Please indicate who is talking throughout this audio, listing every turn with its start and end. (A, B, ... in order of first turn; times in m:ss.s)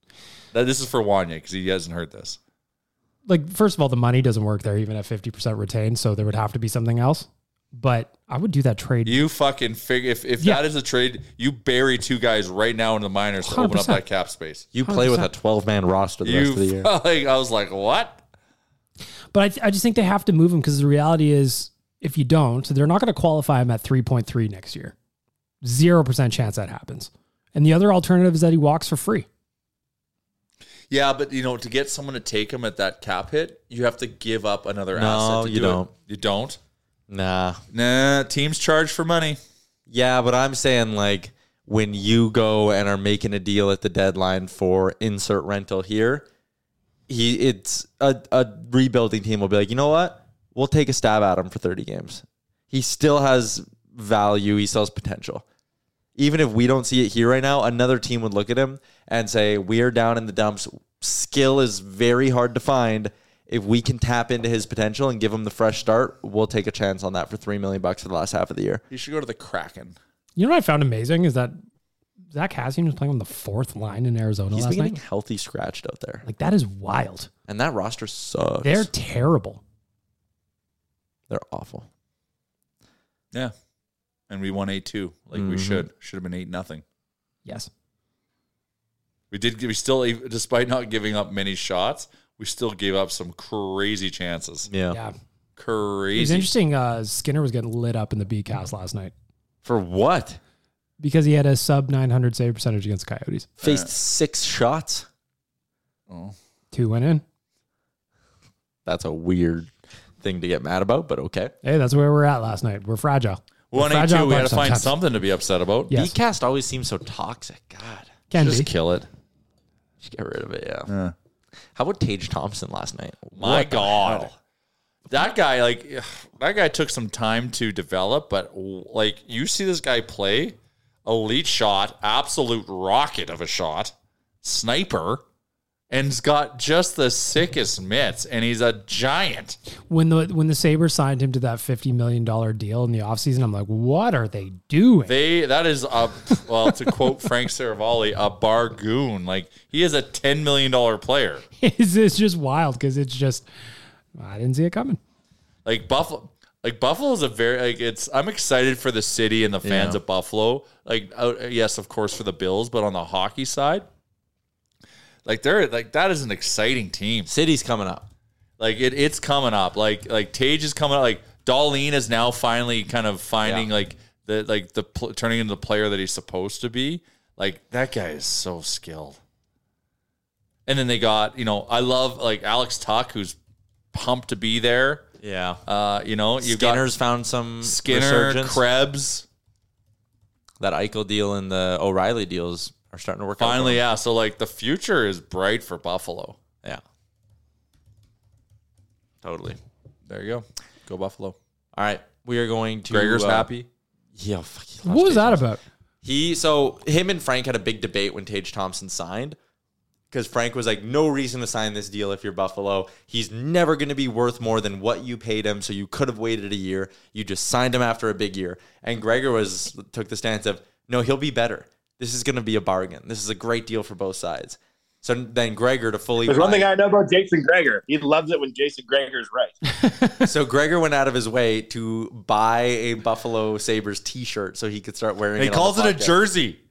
0:00.5-0:02.4 A
0:03.3-0:09.2 B
0:09.1-0:14.7 A
0:13.4-0:14.0 B
0:14.7-0:16.9 C
0:14.8-0:15.3 B
0:16.2-0:18.2 A
0:19.3-0:25.0 B
0:25.6-0:29.3 B
0:30.9-0:36.6 A
0:34.9-0:35.9 C
0:37.1-0:37.6 C
0:37.7-0:39.4 A
0:39.9-0:46.3 C
0:47.1-0:55.4 C
0:56.2-1:08.8 C
1:08.9-1:10.0 A
1:10.4-1:11.6 B
1:12.3-1:14.9 B
1:14.5-1:16.2 C
1:16.2-1:17.3 B
1:17.5-1:18.9 C
1:18.6-1:19.6 B
1:21.3-1:21.9 C
1:24.3-1:26.8 A
1:25.4-1:25.9 C
1:27.4-1:27.7 B
1:29.3-1:34.7 A
1:34.7-1:35.0 C
1:35.6-1:36.5 A
1:36.1-1:39.1 B
1:39.6-1:40.4 C
1:41.0-1:43.5 B
1:43.6-1:43.9 A
1:43.6-1:45.1 C
1:46.1-1:46.4 A
1:46.7-1:47.2 B
1:48.8-1:51.5 C
1:51.6-1:54.9 B
1:53.7-1:55.9 A
1:55.9-1:56.1 B
1:55.9-1:58.1 C
1:58.3-1:58.7 B
1:58.4-1:59.1 A
2:00.0-2:00.9 C
2:00.9-2:01.1 A
2:01.8-2:04.3 C
2:03.4-2:04.4 A
2:05.1-2:15.2 A
2:15.9-2:19.6 A
2:19.9-2:25.2 B
2:25.1-2:31.4 A
2:31.6-2:33.5 B
2:34.2-2:35.0 B
2:35.6-2:43.9 A
2:39.6-2:40.0 C
2:45.3-2:47.3 A
2:47.3-2:48.1 C
2:48.6-2:59.2 A
3:00.7-3:03.4 A
3:03.9-3:05.1 A
3:05.2-3:05.6 C
3:05.7-3:06.8 A
3:06.4-3:08.6 C
3:07.6-3:09.2 A
3:10.6-3:13.8 C
3:13.4-3:16.4 A
3:19.2-3:19.6 C
3:20.1-3:21.4 A
3:21.8-3:23.5 C
3:22.9-3:23.7 A
3:24.2-3:25.4 C
3:24.8-3:25.6 B
3:26.0-3:29.4 C
3:30.1-3:46.7 C
3:46.3-3:49.6 D
3:49.8-3:50.2 B
3:50.2-3:56.2 C
3:55.4-3:56.6 A